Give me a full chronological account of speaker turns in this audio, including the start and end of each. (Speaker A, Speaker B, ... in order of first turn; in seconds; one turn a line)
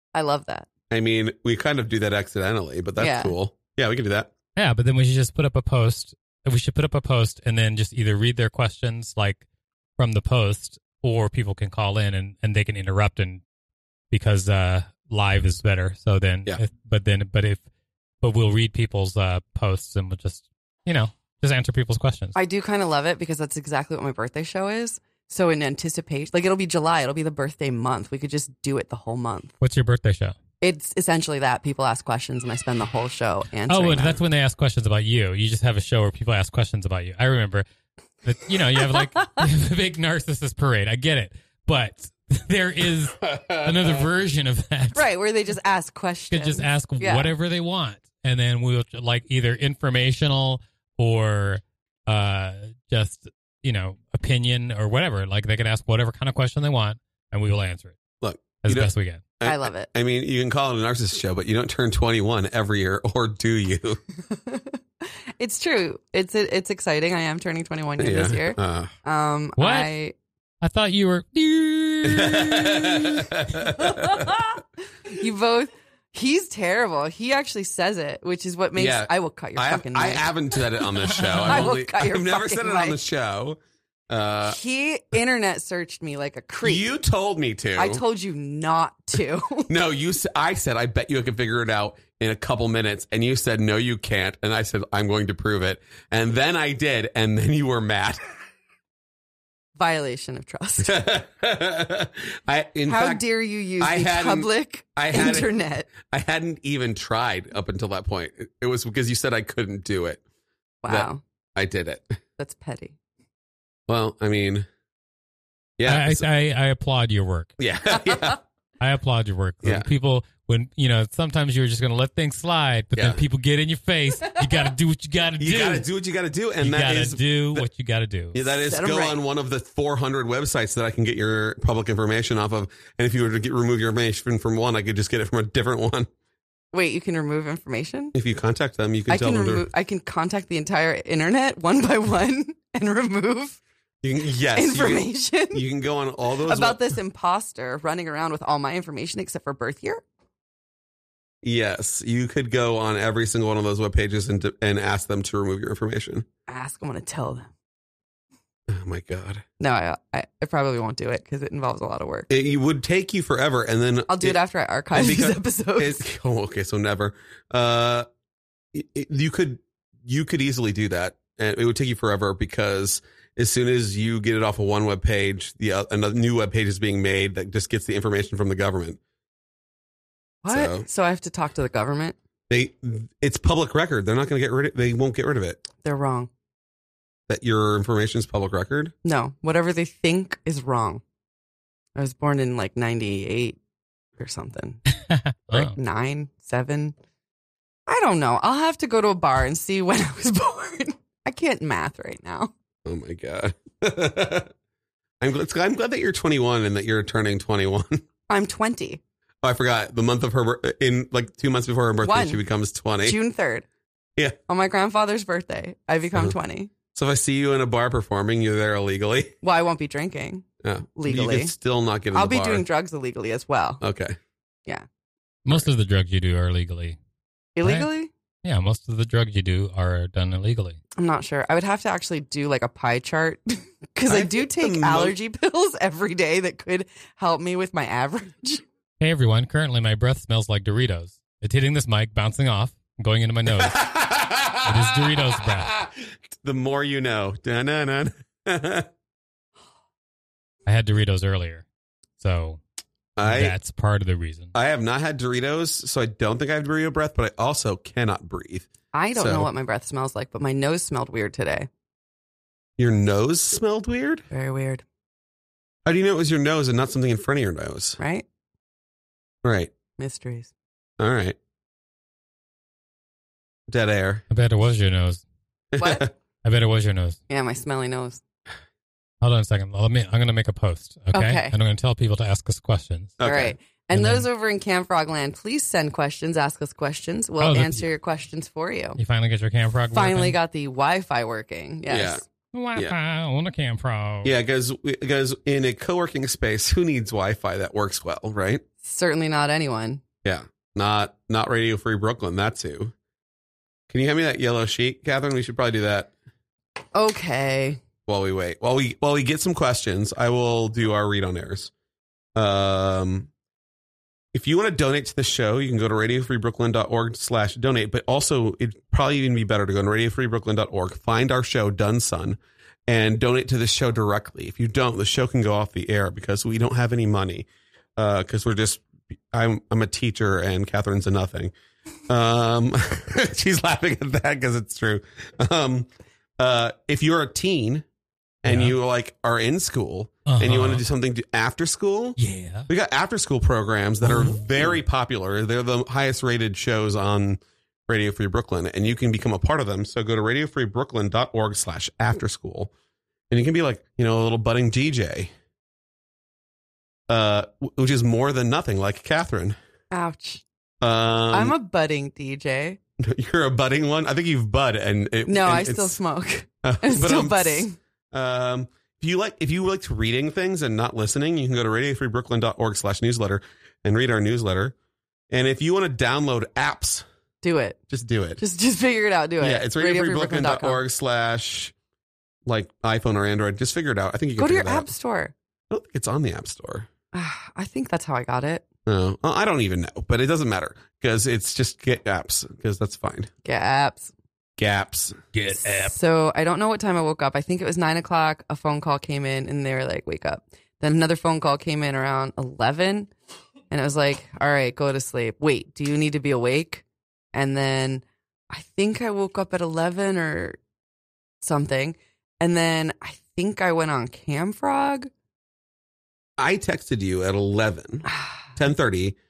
Speaker A: 0.1-0.7
Speaker B: 0.9-4.3
Speaker A: 3.0-3.3
Speaker C: 4.5-9.4
Speaker C: 10.0-13.4
Speaker C: 14.1-17.6
Speaker C: 18.2-22.3
Speaker A: 22.3-29.5
Speaker C: 29.6-30.3
Speaker A: 30.6-34.2
Speaker C: 33.7-37.6
Speaker C: 38.2-45.0
Speaker B: 43.2-44.0
Speaker A: 44.9-47.3
Speaker C: 46.3-58.0
Speaker B: 58.2-64.0
Speaker C: 58.6-59.2
Speaker A: 59.4-59.9
Speaker A: 64.3-64.8
Speaker A: 65.4-70.1
Speaker B: 68.0-68.9
Speaker C: 69.6-69.9
Speaker C: 70.6-73.3
Speaker B: 72.0-74.4
Speaker A: 74.1-74.4
Speaker A: 75.1-80.3
Speaker B: 78.8-83.6
Speaker C: 81.2-81.7
Speaker A: 81.3-83.0
Speaker B: 84.1-84.6
Speaker A: 84.4-86.8
Speaker B: 86.6-88.0
Speaker A: 87.8-89.7
Speaker B: 89.7-98.2
Speaker A: 99.8-101.0
Speaker B: 100.8-103.2
Speaker A: 102.9-105.9
Speaker B: 103.8-110.2
Speaker A: 110.8-111.2
Speaker B: 110.9-112.2
Speaker A: 112.4-113.0
Speaker B: 113.9-114.7
Speaker B: 115.8-116.3
Speaker C: 115.8-117.5
Speaker B: 117.6-118.4
Speaker A: 118.1-118.3
Speaker C: 118.8-125.8
Speaker B: 119.6-119.9
Speaker B: 122.9-123.2
Speaker B: 125.4-127.7
Speaker C: 126.6-128.4
Speaker B: 128.3-136.1
Speaker A: 128.5-129.2
Speaker A: 136.7-138.1
Speaker B: 138.1-139.7
Speaker A: 139.1-143.6
Speaker B: 144.0-146.8
Speaker A: 144.5-145.6
Speaker A: 146.4-150.0
Speaker B: 151.4-156.2
Speaker A: 156.5-157.5
Speaker B: 158.7-159.4
Speaker A: 159.6-162.3
Speaker B: 162.3-164.4
Speaker A: 164.1-166.1
Speaker B: 164.9-168.1
Speaker B: 168.7-179.0
Speaker A: 180.4-182.2
Speaker B: 180.5-180.8
Speaker B: 182.5-185.6
Speaker A: 185.8-186.3
Speaker B: 187.3-188.9
Speaker A: 189.0-191.0
Speaker A: 191.9-193.6
Speaker A: 194.2-194.8
Speaker C: 195.1-195.7
Speaker A: 195.5-196.9
Speaker A: 197.9-202.5
Speaker B: 202.8-204.5
Speaker B: 205.2-208.0
Speaker A: 208.3-209.0
Speaker B: 209.4-213.2
Speaker A: 212.0-212.4
Speaker A: 213.0-213.7
Speaker A: 214.5-216.7
Speaker B: 216.9-219.3
Speaker A: 219.4-220.4
Speaker B: 220.6-222.6
Speaker A: 221.0-221.5
Speaker A: 222.1-223.8
Speaker B: 223.8-224.2
Speaker C: 225.4-227.0
Speaker A: 227.6-228.1
Speaker C: 227.6-227.9
Speaker C: 228.4-230.8
Speaker A: 231.0-238.6
Speaker B: 234.1-235.1
Speaker C: 239.0-243.8
Speaker B: 243.6-248.9
Speaker C: 244.6-245.7
Speaker C: 250.7-251.6
Speaker C: 252.2-252.6
Speaker B: 253.2-253.5
Speaker C: 253.2-254.5
Speaker B: 254.5-259.5
Speaker A: 258.9-261.7
Speaker B: 262.8-264.2
Speaker A: 264.3-264.8
Speaker B: 265.8-268.0
Speaker A: 268.0-268.3
Speaker B: 269.4-269.7
Speaker A: 270.0-270.5
Speaker B: 271.0-271.4
Speaker B: 273.7-274.2
Speaker C: 274.3-275.2
Speaker B: 275.7-276.1
Speaker A: 275.8-276.1
Speaker C: 276.4-277.2
Speaker A: 277.3-278.2
Speaker C: 279.2-283.2
Speaker A: 281.1-281.5
Speaker B: 283.2-283.6
Speaker A: 283.2-289.0
Speaker C: 283.9-284.3
Speaker C: 287.4-287.8
Speaker C: 289.0-290.4
Speaker A: 289.9-292.2
Speaker B: 291.9-292.2
Speaker C: 292.5-294.3
Speaker B: 294.2-298.6
Speaker A: 298.8-300.0
Speaker B: 300.2-302.9
Speaker B: 303.9-306.1
Speaker A: 306.9-307.8
Speaker B: 308.1-311.7
Speaker B: 312.4-313.3
Speaker B: 314.3-331.5
Speaker B: 332.1-337.8
Speaker B: 338.4-352.7
Speaker C: 338.4-338.7
Speaker C: 340.3-340.8
Speaker C: 342.2-342.7
Speaker C: 344.0-344.4
Speaker B: 353.3-355.3
Speaker B: 357.1-359.6
Speaker A: 359.9-360.4
Speaker B: 360.8-361.5
Speaker A: 361.3-362.8
Speaker B: 363.0-366.0
Speaker A: 365.3-367.8
Speaker B: 366.6-374.7
Speaker B: 375.3-377.0
Speaker A: 377.4-377.8
Speaker B: 377.9-378.4
Speaker A: 378.4-380.8
Speaker B: 379.4-381.7
Speaker B: 382.4-384.9
Speaker A: 384.4-385.3
Speaker B: 385.7-386.9
Speaker A: 387.1-388.6
Speaker B: 388.9-393.3
Speaker A: 393.4-394.1
Speaker B: 394.6-395.1
Speaker C: 395.3-395.9
Speaker A: 395.5-403.1
Speaker A: 403.7-410.6
Speaker A: 411.4-415.1
Speaker B: 416.4-419.1
Speaker A: 418.1-418.4